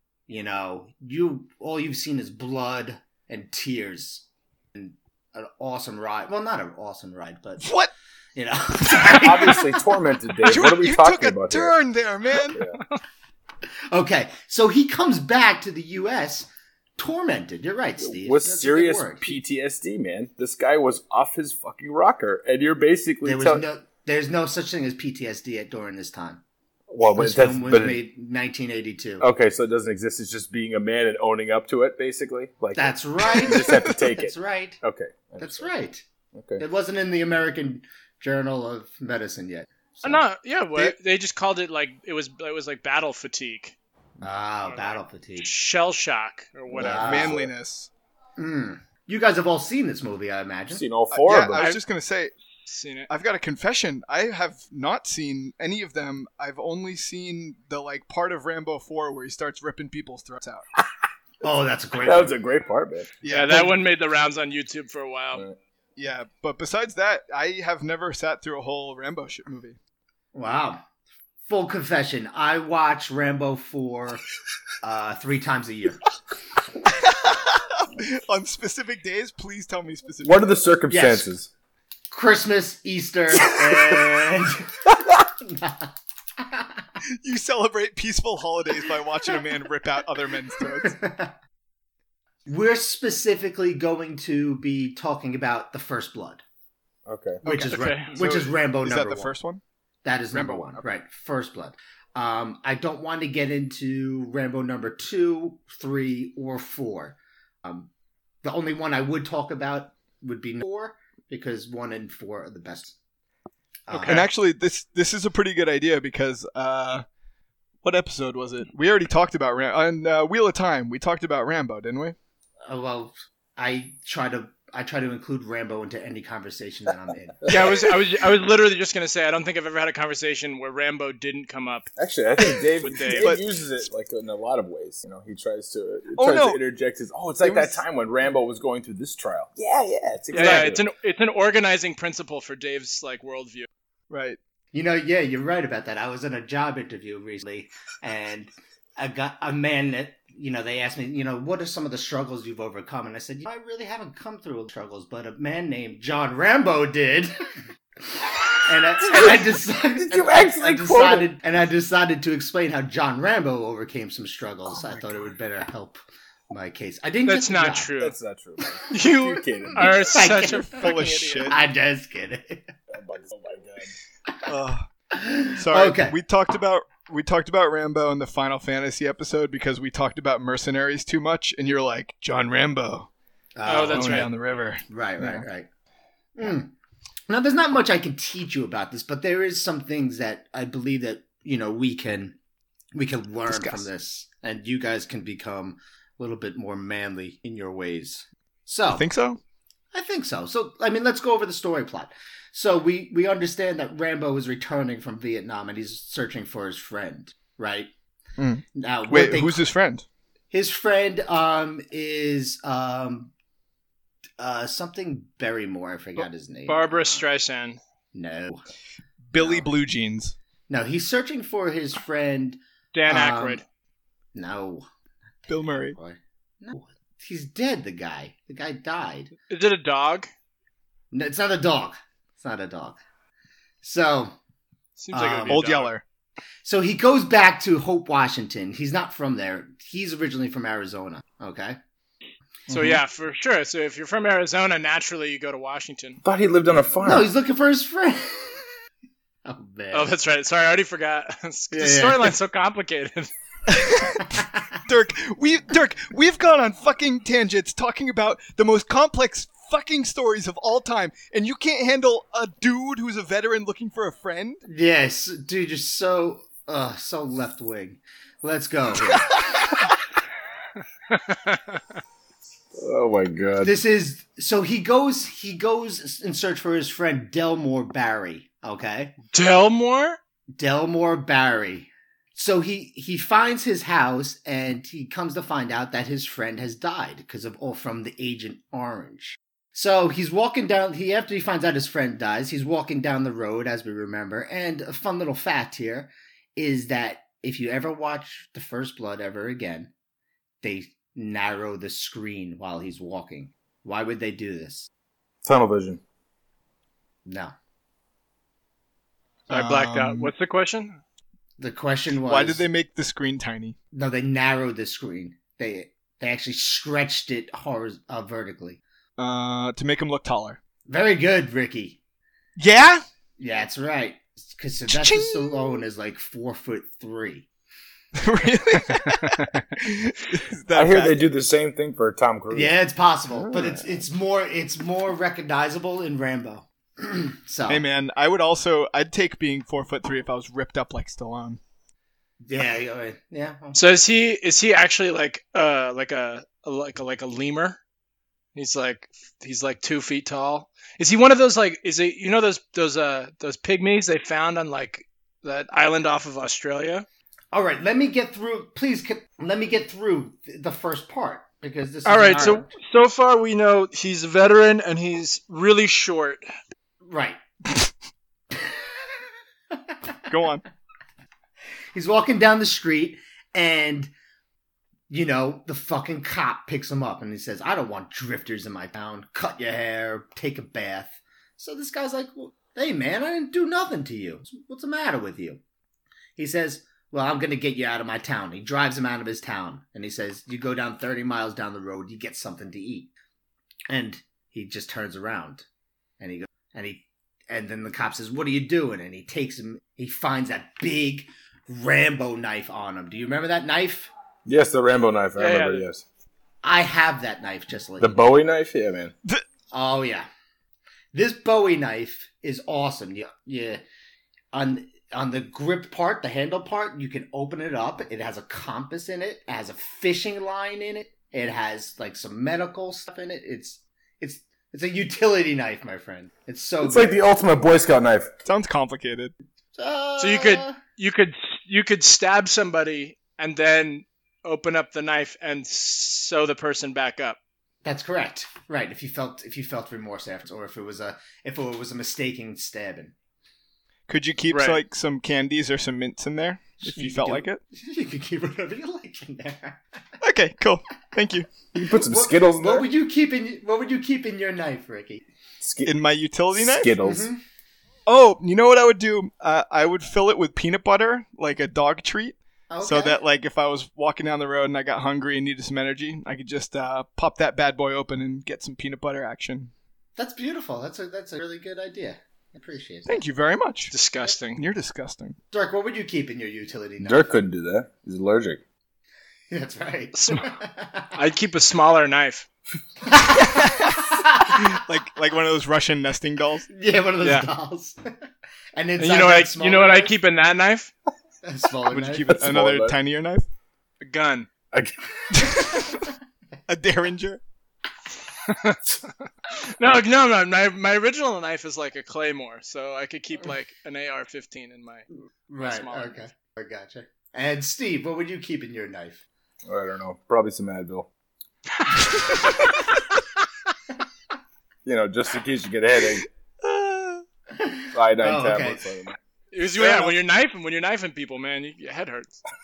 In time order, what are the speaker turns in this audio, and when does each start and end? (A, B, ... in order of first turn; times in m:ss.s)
0:00.3-0:07.7 A
0:07.6-0:07.9 B
0:08.4-0:09.8 A
0:09.0-0:11.8 C
0:10.4-0:12.6 B
0:12.5-0:12.8 C
0:13.9-0:19.4 A
0:18.0-0:23.6 C
0:23.2-0:26.4 A
0:26.9-0:28.0 C
0:27.1-0:29.3 A
0:29.2-0:35.7 C
0:32.8-0:34.8 A
0:35.4-0:36.0 A
0:36.3-0:36.6 C
0:36.6-0:40.2 A
0:40.0-0:43.8 D
0:44.2-0:45.5 A
0:44.6-0:47.1 D
0:46.7-0:47.5 C
0:46.8-0:47.4 A
0:47.0-0:47.9 B
0:48.4-0:50.8 A
0:50.7-0:51.7 C
0:51.1-0:52.3 B
0:51.6-0:51.8 D
0:52.7-0:53.1 D
0:53.1-1:00.7 B
1:01.4-1:02.4 A
1:02.0-1:03.6 C
1:03.2-1:03.7 B
1:03.3-1:05.4 D
1:06.0-1:09.8 B
1:10.3-1:10.8 A
1:11.4-1:14.2 A
1:14.8-1:16.0 A
1:16.9-1:20.4 B
1:20.2-1:21.5 C
1:20.9-1:21.3 A
1:22.1-1:24.7 A
1:23.7-1:24.0 C
1:25.4-1:25.9 A
1:26.4-1:26.7 A
1:27.2-1:31.0 B
1:30.8-1:31.3 A
1:32.4-1:36.4 A
1:37.0-1:37.4 C
1:37.4-1:39.6 B
1:37.4-1:39.4 A
1:37.7-1:38.2 D
1:40.0-1:47.9 A
1:40.3-1:40.8 B
1:48.4-1:53.0 A
1:53.9-1:54.3 A
1:53.9-1:54.3 D
1:54.0-1:57.0 B
1:57.8-2:02.2 B
2:02.6-2:07.4 A
2:07.4-2:07.9 C
2:07.5-2:11.9 D
2:12.0-2:20.8 C
2:12.8-2:13.3 D
2:13.2-2:13.4 B
2:16.2-2:16.6 B
2:17.4-2:17.8 B
2:20.3-2:23.7 D
2:20.4-2:20.7 B
2:24.1-2:24.4 B
2:24.7-2:37.3 A
2:38.6-2:46.0 A
2:39.0-2:41.3 C
2:46.5-2:47.9 A
2:47.3-2:48.2 D
2:48.0-2:50.2 C
2:48.9-2:51.6 D
2:50.1-2:50.8 A
2:50.4-2:51.6 B
2:51.5-2:52.7 A
2:52.9-2:53.9 C
2:54.4-2:54.9 B
2:55.1-2:56.1 A
2:55.6-3:03.1 B
3:03.6-3:04.3 A
3:03.6-3:04.3 D
3:03.7-3:05.4 B
3:04.9-3:05.7 A
3:06.4-3:06.7 A
3:07.3-3:12.4 A
3:12.9-3:19.0 A
3:13.5-3:13.8 B
3:18.9-3:19.4 B
3:19.9-3:27.9 A
3:28.4-3:30.0 B
3:28.7-3:29.6 A
3:30.5-3:33.3 A
3:34.4-3:37.3 A
3:36.7-3:37.8 D
3:38.1-3:38.6 A
3:39.3-3:40.3 B
3:39.4-3:39.7 A
3:40.7-3:43.6 A
3:42.9-3:43.6 D
3:44.3-3:44.9 A
3:45.4-3:49.3 A
3:45.5-3:46.0 B
3:49.5-3:50.3 D
3:51.1-3:53.0 A
3:53.8-3:54.3 A
3:55.0-3:56.0 D
3:55.1-3:55.6 A
3:55.5-3:56.0 B
3:56.6-4:01.8 A
4:02.7-4:02.9 B
4:02.7-4:06.2 D
4:06.2-4:07.3 C
4:07.0-4:08.6 A
4:09.4-4:10.1 A
4:09.9-4:13.3 D
4:11.7-4:12.3 A
4:13.7-4:24.6 B
4:14.3-4:14.8 A
4:24.6-4:29.3 A
4:29.1-4:29.4 B
4:31.1-4:31.8 D
4:32.7-4:33.7 C
4:33.6-4:39.1 A
4:39.3-4:40.2 D
4:40.6-4:59.9 A
5:00.6-5:04.9 A
5:05.4-5:06.0 C
5:07.2-5:07.5 A
5:09.5-5:11.0 D
5:09.5-5:10.3 B
5:11.6-5:12.6 A
5:12.3-5:13.8 B
5:13.9-5:18.8 A
5:19.2-5:20.6 B
5:20.9-5:22.0 A
5:22.6-5:23.0 B
5:23.4-5:27.5 A
5:24.9-5:25.8 B
5:28.2-5:31.3 B
5:29.0-5:29.5 D
5:30.7-5:32.7 C
5:32.5-5:37.8 A
5:33.4-5:33.8 C
5:37.7-5:41.6 B
5:42.4-5:43.8 A
5:43.7-5:47.8 D
5:48.5-5:57.0 D
5:57.5-6:02.7 A
6:02.0-6:06.4 D
6:02.2-6:02.6 B
6:07.0-6:07.4 A
6:08.5-6:08.9 A
6:09.8-6:10.2 A
6:10.3-6:10.6 B
6:11.9-6:14.1 A
6:15.1-6:25.6 A
6:26.4-6:33.1 A
6:33.9-6:35.6 A
6:36.2-6:44.1 A
6:44.4-6:46.0 C
6:45.4-6:45.8 D
6:46.6-6:48.1 A
6:48.0-6:49.1 C
6:49.7-6:50.3 A
6:51.1-6:53.8 A
6:54.5-7:07.2 A
7:06.8-7:08.3 C
7:08.4-7:09.3 B
7:09.8-7:10.8 A
7:10.2-7:17.4 D
7:17.8-7:23.1 A
7:24.1-7:27.6 B
7:24.5-7:24.8 D
7:26.8-7:29.8 A
7:30.2-7:31.6 B
7:31.7-7:32.9 C
7:31.8-7:35.2 A
7:35.6-7:36.0 C
7:35.8-7:36.9 B
7:36.5-7:37.3 C
7:37.0-7:37.4 A
7:38.1-7:49.7 B
7:42.7-7:43.2 A
7:50.2-7:53.2 A
7:53.1-7:53.9 B
7:53.9-7:54.6 D
7:54.6-7:55.4 B
7:55.5-7:57.3 A
7:57.0-7:58.6 C
7:59.5-8:01.1 A
8:00.1-8:00.5 D
8:01.1-8:02.4 D
8:03.1-8:04.7 A
8:03.4-8:06.7 B
8:06.7-8:08.0 A
8:07.2-8:07.5 D
8:08.8-8:10.1 A
8:09.0-8:10.9 D
8:11.4-8:12.4 A
8:11.9-8:13.5 B
8:12.3-8:13.0 C
8:14.0-8:14.5 D
8:14.7-8:15.5 C
8:15.3-8:16.0 B
8:16.7-8:17.4 B
8:18.4-8:19.0 D
8:19.5-8:25.1 D
8:25.5-8:29.2 A
8:25.6-8:26.2 D
8:29.6-8:31.1 C
8:34.8-8:36.3 C
8:36.6-8:37.2 B
8:37.5-8:38.9 A
8:37.9-8:39.2 C
8:39.5-8:42.4 D